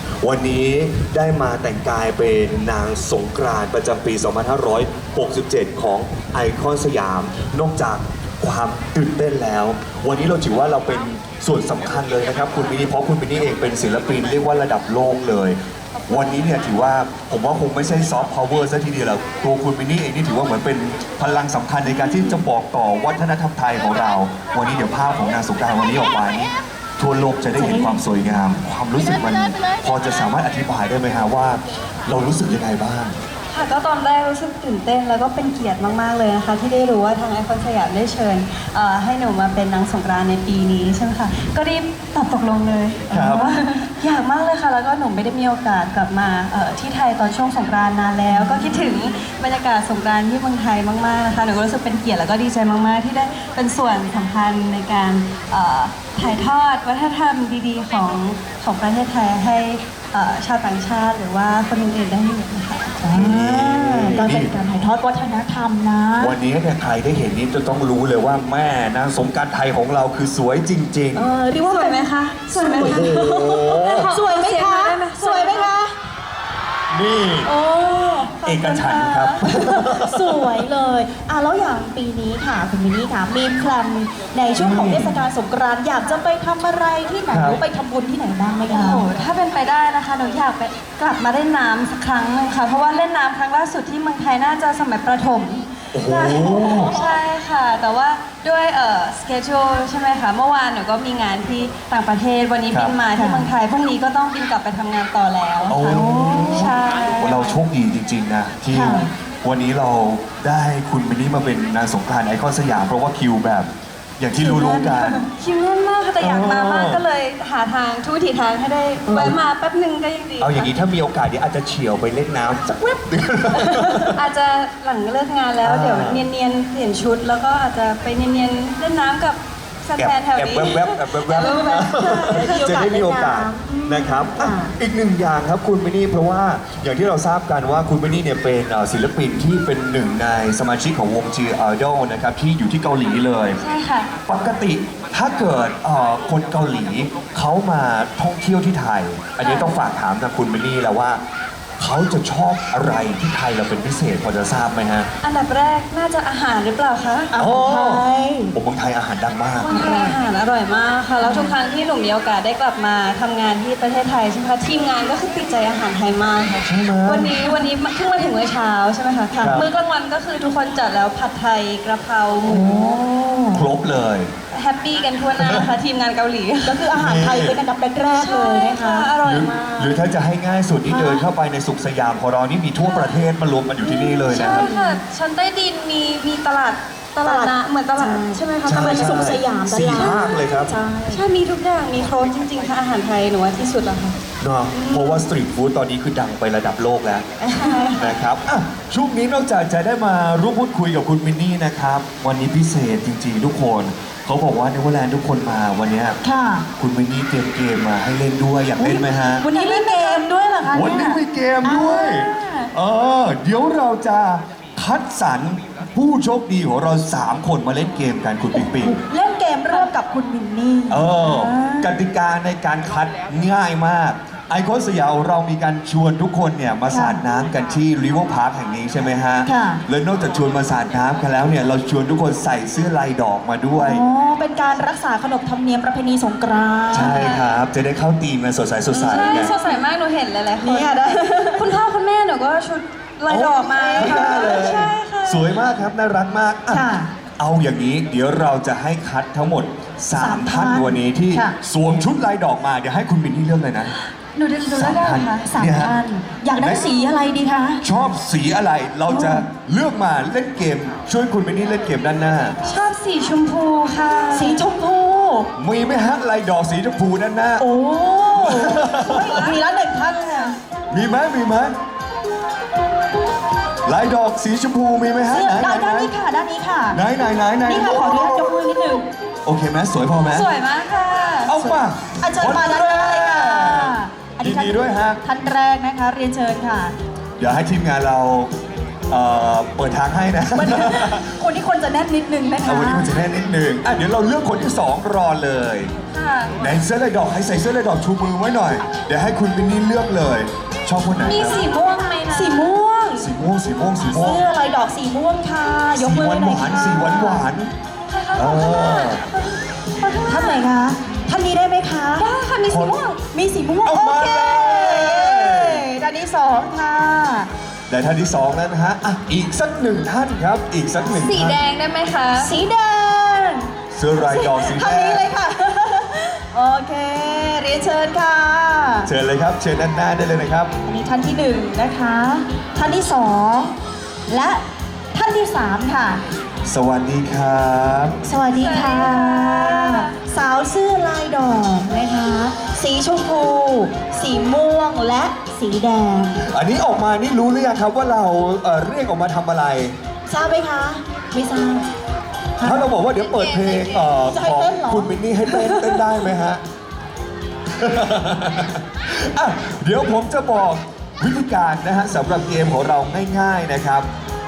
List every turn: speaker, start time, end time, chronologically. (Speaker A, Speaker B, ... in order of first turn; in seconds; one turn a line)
Speaker A: 0.2-33.2
Speaker B: 21.9-22.4
Speaker B: 27.5-28.0
Speaker C: 33.5-63.0
Speaker A: 43.1-43.6
Speaker B: 48.3-49.0
Speaker B: 63.0-66.4
Speaker A: 63.1-64.5
Speaker A: 66.2-71.3
Speaker B: 71.1-75.9
Speaker C: 71.6-75.7
Speaker A: 72.8-74.1
Speaker A: 76.9-77.5
Speaker C: 77.5-79.6
Speaker B: 77.6-78.3
Speaker A: 78.4-80.5
Speaker B: 79.5-89.1
Speaker A: 84.5-85.2
Speaker A: 87.3-87.6
Speaker C: 88.7-107.6
Speaker A: 95.9-96.9
Speaker A: 102.7-103.0
Speaker B: 103.1-103.5
Speaker A: 105.7-115.2
Speaker B: 105.7-106.7
Speaker B: 108.7-109.1
Speaker B: 114.3-115.2
Speaker C: 115.2-120.7
Speaker A: 116.2-117.0
Speaker A: 119.1-119.4
Speaker A: 120.4-124.2
Speaker C: 123.7-132.6
Speaker A: 125.6-126.2
Speaker A: 130.0-143.6
Speaker B: 131.3-134.7
Speaker C: 143.6-144.1
Speaker A: 144.3-151.2
Speaker C: 149.4-149.7
Speaker A: 151.8-155.1
Speaker C: 155.2-157.3
Speaker B: 157.3-158.5
Speaker A: 157.4-159.7
Speaker C: 159.6-172.9
Speaker B: 159.7-160.1
Speaker B: 161.2-161.5
Speaker A: 166.6-167.3
Speaker B: 169.3-169.6
Speaker A: 169.4-169.7
Speaker B: 172.4-173.7
Speaker A: 173.5-174.3
Speaker C: 174.5-176.9
Speaker A: 175.4-175.7
Speaker B: 176.6-179.1
Speaker A: 176.9-177.6
Speaker C: 178.1-180.0
Speaker A: 179.2-184.7
Speaker B: 180.9-181.2
Speaker C: 182.8-183.2
Speaker C: 183.8-189.3
Speaker B: 184.3-185.0
Speaker B: 187.2-191.2
Speaker A: 188.6-190.7
Speaker C: 189.9-190.3
Speaker C: 191.1-194.2
Speaker A: 194.4-197.3
Speaker C: 194.8-195.1
Speaker B: 197.4-198.0
Speaker C: 197.6-198.1
Speaker A: 197.9-206.2
Speaker B: 206.2-206.7
Speaker A: 206.8-209.4
Speaker B: 208.8-212.2
Speaker C: 209.4-210.3
Speaker A: 210.7-219.0
Speaker C: 211.7-212.7
Speaker B: 218.5-221.9
Speaker A: 220.9-234.0
Speaker B: 226.9-227.2
Speaker B: 229.4-229.8
Speaker B: 233.7-237.3
Speaker A: 236.9-239.5
Speaker C: 237.0-237.5
Speaker C: 238.9-245.6
Speaker B: 239.3-239.8
Speaker B: 240.6-241.7
Speaker A: 243.3-246.8
Speaker B: 243.4-244.8
Speaker B: 246.7-247.1
Speaker A: 247.4-253.9
Speaker B: 250.1-251.6
Speaker C: 254.2-255.5
Speaker A: 254.7-256.0
Speaker B: 255.4-257.8
Speaker A: 256.5-257.0
Speaker A: 257.8-262.6
Speaker B: 259.1-259.4
Speaker C: 262.6-264.7
Speaker B: 264.3-265.5
Speaker A: 265.6-267.7
Speaker B: 267.6-270.6
Speaker A: 268.3-269.5
Speaker C: 269.0-269.6
Speaker A: 270.9-271.7
Speaker A: 273.8-276.1
Speaker B: 275.3-277.0
Speaker A: 276.9-278.6
Speaker B: 277.6-279.1
Speaker A: 279.4-280.5
Speaker C: 280.3-281.6
Speaker A: 281.4-285.2
Speaker B: 282.2-286.9
Speaker A: 287.4-288.5
Speaker A: 289.1-291.3
Speaker B: 290.5-293.1
Speaker A: 292.6-295.9
Speaker C: 296.1-296.6
Speaker A: 296.6-301.7
Speaker C: 301.1-302.8
Speaker B: 302.3-303.3
Speaker A: 303.2-304.4
Speaker B: 304.1-307.5
Speaker A: 305.9-307.7
Speaker C: 308.1-310.7
Speaker A: 308.4-309.2
Speaker B: 310.2-312.3
Speaker C: 312.2-313.2
Speaker A: 312.7-313.1
Speaker B: 313.3-317.5
Speaker A: 313.8-315.9
Speaker A: 317.9-321.6
Speaker C: 321.1-322.6
Speaker B: 322.4-323.7
Speaker A: 323.9-325.2
Speaker B: 324.2-329.1
Speaker A: 329.0-330.7
Speaker B: 330.9-333.8
Speaker B: 334.3-336.2
Speaker A: 336.6-338.2
Speaker B: 338.2-346.4
Speaker C: 338.5-340.1
Speaker A: 346.4-349.9
Speaker B: 350.3-351.9
Speaker B: 352.6-352.9
Speaker A: 352.6-356.6
Speaker C: 353.2-354.1
Speaker B: 354.2-356.0
Speaker A: 357.8-364.1